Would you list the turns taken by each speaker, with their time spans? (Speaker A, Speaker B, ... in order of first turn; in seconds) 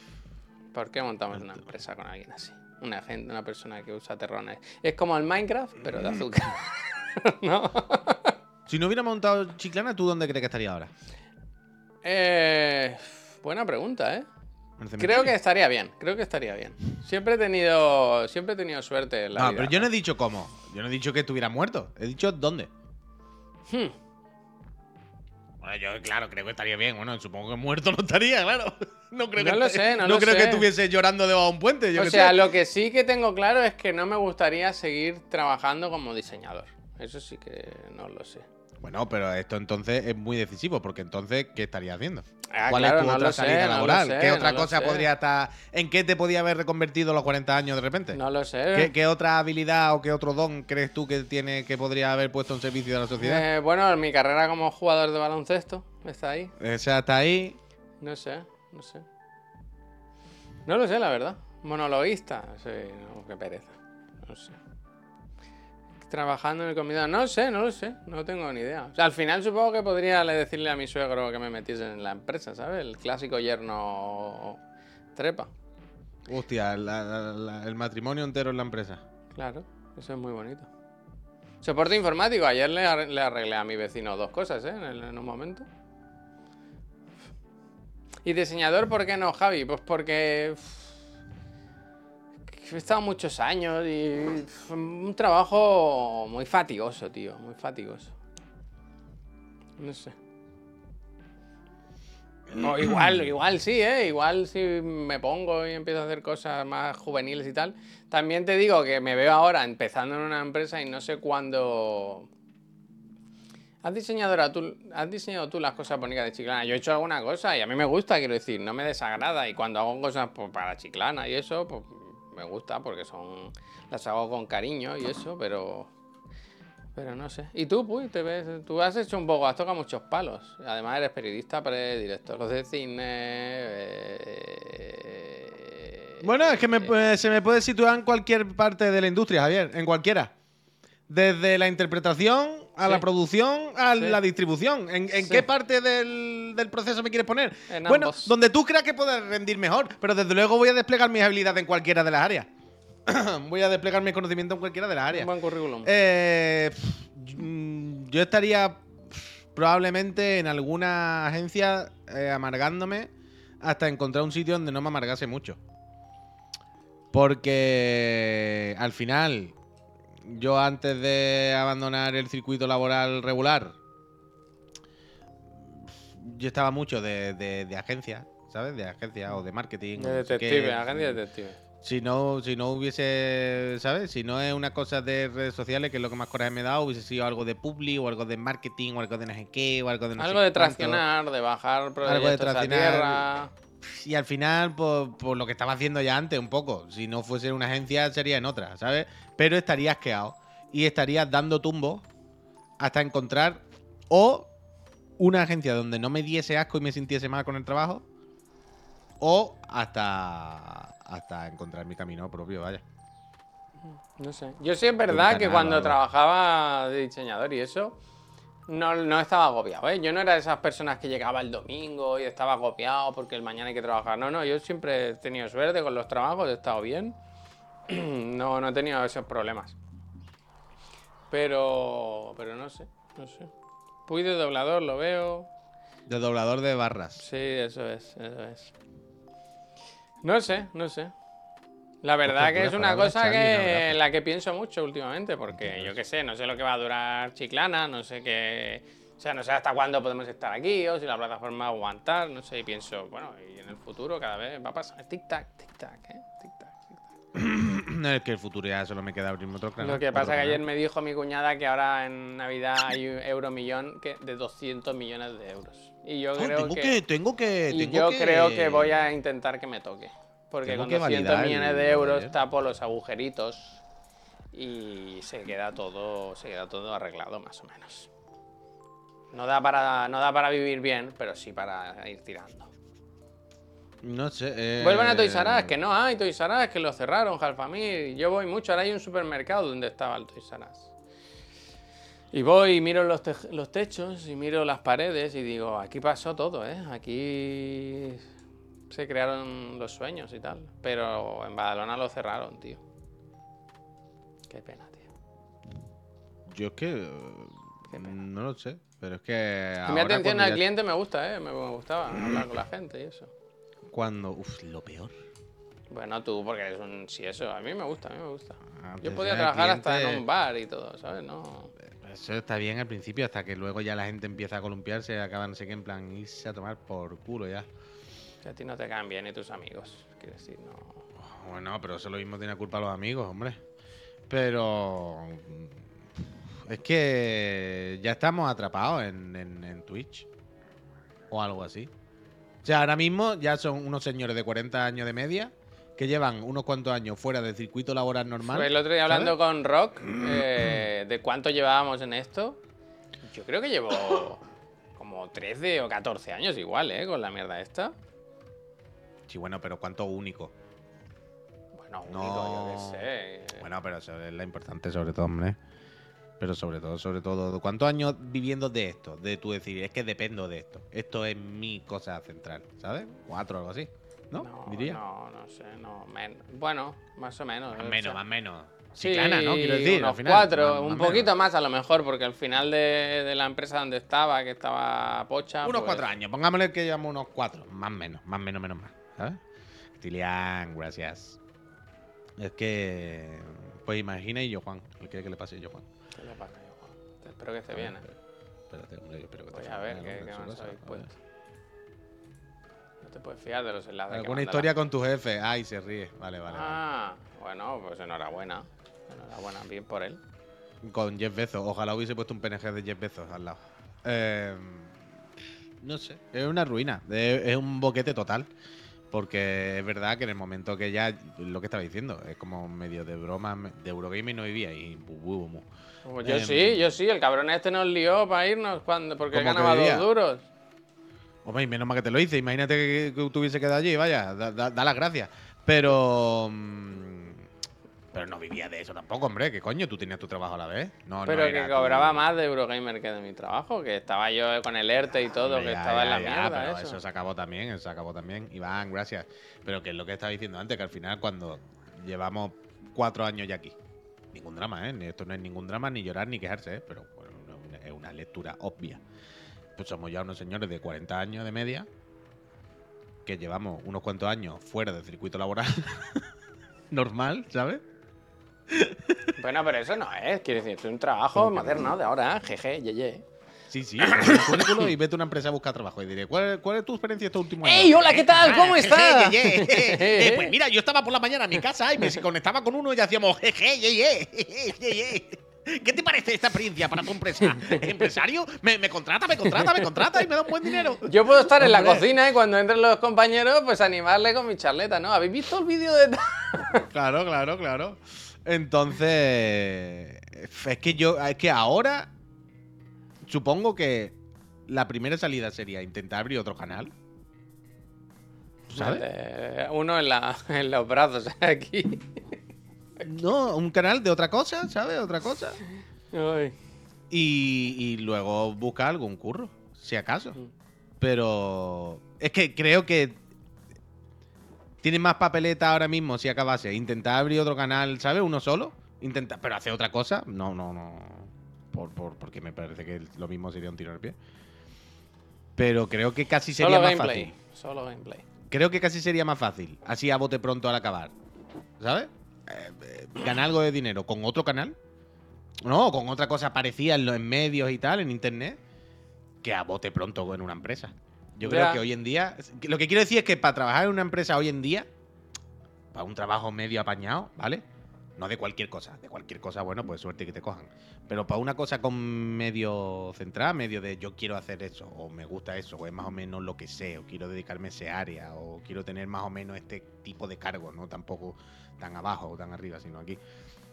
Speaker A: 0.7-8.3, 12.0-14.3, 15.0-19.9, 23.7-23.9, 29.4-30.7, 31.9-38.5, 42.5-45.1, 48.1-48.9, 53.2-56.5, 58.0-59.0, 60.6-64.5, 66.0-74.6, 75.1-75.5, 79.3-80.7, 81.6-85.7, 88.2-90.9, 92.5-98.1, 99.8-100.1, 102.5-112.3, 113.8-125.9, 127.0-136.9, 145.2-145.4, 147.7-148.3, 155.1-155.9, 179.9-181.6, 190.2-193.5, 214.2-217.9, 218.7-227.2, 227.9-229.8, 231.3-233.5, 234.1-235.5, 237.2-238.7, 240.2-241.1, 242.0-257.0, 259.8-266.9, 267.7-273.8, 274.5-278.1, 279.3-282.7, 284.8-290.9, 292.3-298.2, 298.9-302.8, 304.5-305.1, 309.9-313.3, 315.9-321.7, 328.4-331.0, 348.4-352.6, 353.2-354.4, 354.9-357.9, 361.8-363.6, 374.4-378.2, 379.0-386.1, 396.1-398.0, 399.5-401.1, 403.0-404.7, 406.5-410.2, 426.1-430.4, 441.2-447.0, 469.4-473.2, 474.0-474.9, 477.6-480.5, 487.4-488.0, 489.5-490.2, 491.0-496.9, 508.7-512.4, 516.1-516.5, 536.5-538.2, 551.4-551.8
Speaker B: 6.0-6.2, 8.7-10.9, 14.8-15.3, 19.3-22.7, 25.6-32.5, 38.8-48.2, 48.7-53.5, 56.6-57.6, 76.2-79.0, 102.5-103.3, 136.2-140.3, 141.1-152.5, 153.1-155.3, 155.8-163.1, 163.6-165.6, 167.1-169.6, 170.2-173.8, 175.5-181.2, 181.8-191.0, 192.0-193.2, 193.8-202.0, 202.8-204.5, 205.2-208.0, 209.2-212.8, 215.1-216.0, 236.1-237.2, 242.2-244.0, 245.5-246.0, 257.3-260.6, 266.4-269.1, 270.6-272.4, 284.0-285.7, 306.5-310.6, 313.9-315.1, 318.8-320.2, 321.8-327.7, 331.2-333.6, 334.3-335.8, 336.6-340.3, 341.3-341.9, 342.6-349.3, 350.0-350.8, 359.3-360.5, 362.1-365.6, 366.4-375.0, 377.7-381.3, 385.6-389.4, 390.0-391.4, 392.4-395.9, 397.7-398.1, 398.7-401.1, 404.1-406.8, 410.8-415.0, 415.8-418.5, 419.1-425.6, 426.2-426.9, 429.3-430.1, 431.4-437.4, 438.1-442.2, 445.4-453.8, 454.3-459.0, 459.8-461.9, 463.2-466.2, 466.9-467.8, 468.7-469.3, 471.3-471.9, 473.7-492.1, 496.9-502.1, 503.2-504.1, 504.7-506.9, 508.7-509.0, 513.0-515.6, 517.1-520.4, 521.0-523.2, 524.8-534.1, 535.5-537.3, 538.5-541.1, 541.8-544.8, 545.6-548.6, 549.4-554.9, 555.9-557.6, 558.2-573.2